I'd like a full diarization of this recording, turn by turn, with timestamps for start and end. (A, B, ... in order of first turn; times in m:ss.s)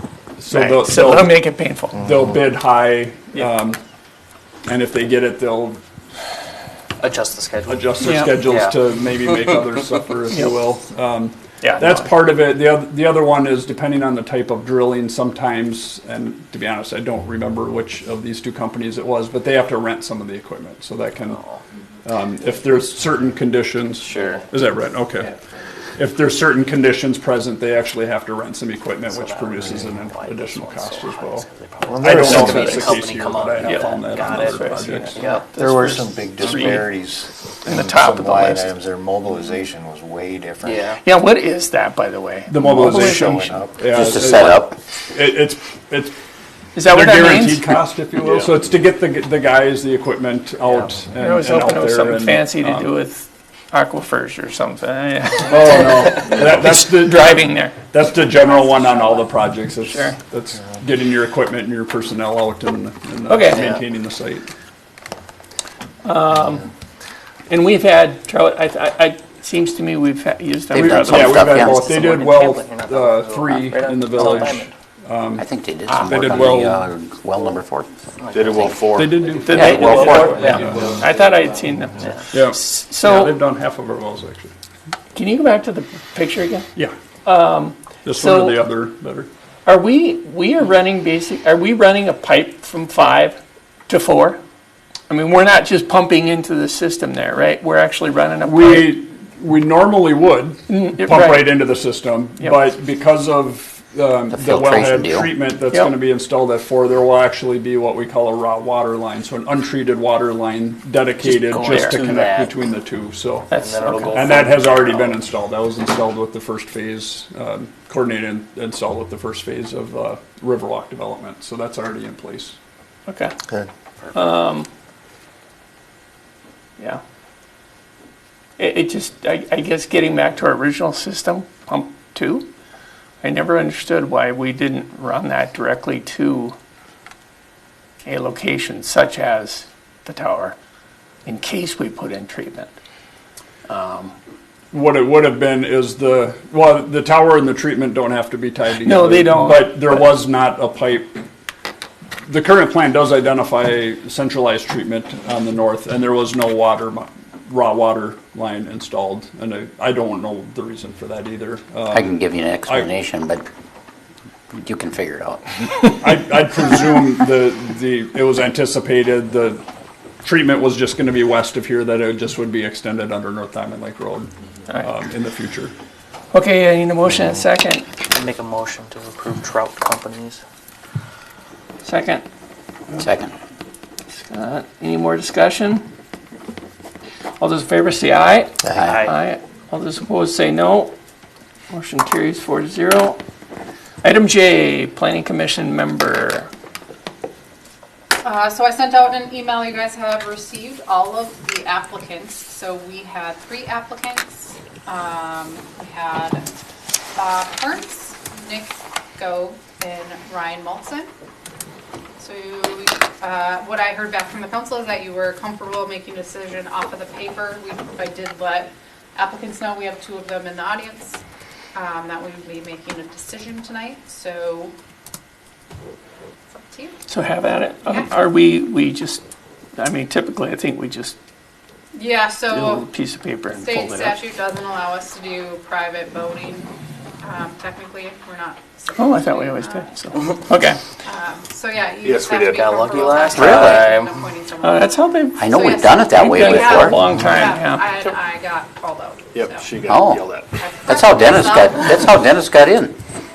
0:00.4-0:01.4 A
0:00.5-0:02.0 B
0:02.0-0:03.8 A
0:04.7-0:05.8 A
0:07.0-0:09.6 C
0:07.7-0:21.4 A
0:08.0-0:08.4 B
0:11.6-0:12.1 B
0:22.0-0:25.3 A
0:24.0-0:24.5 C
0:26.0-0:31.5 A
0:29.1-0:35.6 C
0:29.6-0:29.9 D
0:31.9-0:33.0 D
0:32.0-0:35.2 A
0:32.1-0:33.0 B
0:33.6-0:36.9 B
0:35.1-0:41.0 D
0:37.6-0:38.7 B
0:40.6-0:40.9 C
0:40.9-0:43.6 B
0:42.5-0:46.2 A
0:42.6-0:43.9 D
0:43.9-0:44.8 E
0:46.8-0:47.8 B
0:46.8-0:52.9 A
0:51.2-0:57.8 B
0:55.5-1:04.5 A
0:58.3-0:59.4 F
0:59.8-1:00.2 B
1:03.3-1:03.7 B
1:06.0-1:06.7 B
1:07.5-1:11.6 B
1:10.7-1:15.5 A
1:10.8-1:12.0 E
1:11.5-1:14.7 C
1:15.4-1:17.9 E
1:15.9-1:16.6 B
1:16.0-1:16.8 A
1:18.2-1:19.4 C
1:18.3-1:21.1 G
1:19.0-1:21.0 A
1:19.4-1:23.4 B
1:19.5-1:20.5 E
1:19.9-1:21.4 C
1:22.0-1:22.3 C
1:22.3-1:24.5 A
1:25.1-1:26.7 B
1:27.2-1:28.6 B
1:28.0-1:29.3 A
1:29.7-1:34.4 B
1:35.1-1:39.0 B
1:38.4-2:02.6 A
1:40.7-1:41.6 B
1:44.3-1:45.3 E
1:51.2-1:52.0 B
1:51.7-1:52.7 C
1:53.5-1:54.5 B
1:53.5-1:55.1 C
2:03.1-2:03.3 B
2:04.1-2:04.7 B
2:08.6-2:12.5 B
2:13.2-2:16.6 B
2:18.0-2:20.6 B
2:21.2-2:22.7 B
2:23.7-2:24.1 B
2:24.7-2:31.2 A
2:28.7-2:30.1 B
2:32.3-2:42.1 A
2:41.9-2:43.4 E
2:44.5-2:45.6 E
2:46.0-2:49.6 A
2:50.2-2:55.7 A
2:56.3-2:57.9 B
2:58.0-3:00.4 C
3:01.8-3:02.2 B
3:03.0-3:03.3 E
3:04.2-3:05.9 B
3:07.4-3:11.0 B
3:08.7-3:09.2 C
3:11.7-3:13.2 B
3:14.0-3:16.5 B
3:18.2-3:26.5 F
3:27.2-3:31.1 F
3:32.2-3:41.2 F
3:41.7-3:44.7 F
3:46.5-3:47.0 F
3:47.1-3:49.2 B
3:49.8-3:51.2 B
3:51.9-3:52.9 F
3:52.5-3:54.2 B
3:53.5-3:56.7 F
3:57.2-4:00.3 F
3:59.0-4:00.8 B
4:01.0-4:09.7 F
4:02.0-4:03.0 G
4:02.3-4:04.2 C
4:03.4-4:03.9 E
4:03.4-4:03.8 B
4:04.6-4:05.5 B
4:05.4-4:07.1 E
4:06.1-4:07.9 B
4:09.3-4:10.5 G
4:09.9-4:10.3 E
4:10.6-4:12.2 F
4:10.9-4:13.0 E